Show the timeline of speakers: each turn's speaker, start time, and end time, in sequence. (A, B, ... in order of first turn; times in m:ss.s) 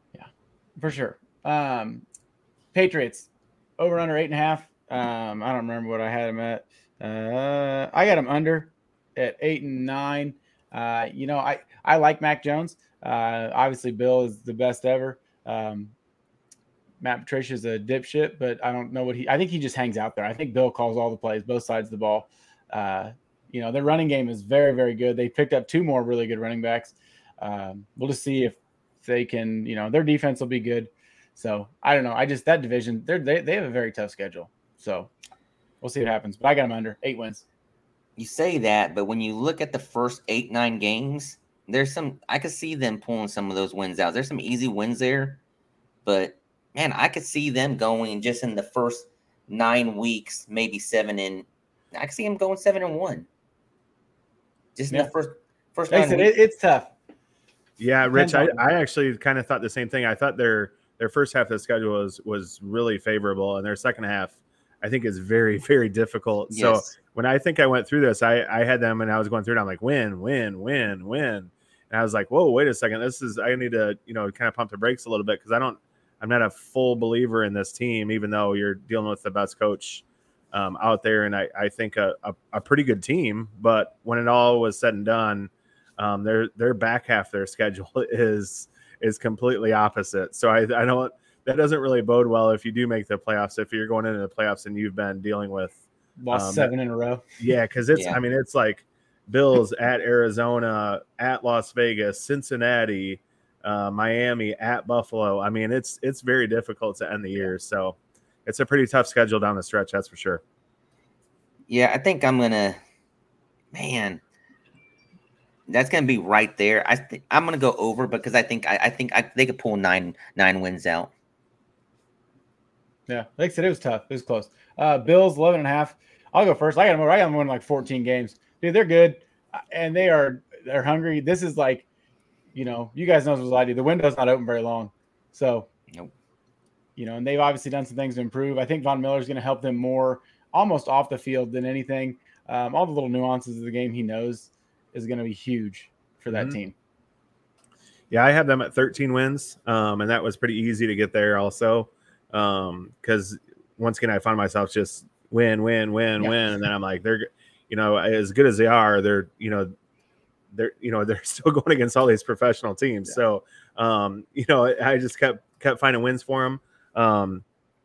0:00.1-0:02.0 A
0:02.7-0:15.9 A
0:17.0-0:35.1 A
0:35.8-0:37.4 A
0:38.2-0:45.4 B
0:46.0-0:53.3 B
0:54.8-0:56.3 B
0:55.9-0:56.9 A
0:57.8-1:35.8 C
0:58.1-0:58.6 A
1:06.5-1:06.9 B
1:36.2-1:37.2 A
1:36.3-1:36.7 C
1:37.4-1:50.4 C
1:51.7-1:52.8 B
1:53.7-1:54.2 B
1:55.7-2:01.1 B
2:03.1-2:11.8 A
2:12.5-2:15.7 A
2:17.0-2:26.7 A
2:26.3-2:26.6 C
2:28.1-2:39.7 C
2:40.5-2:47.4 C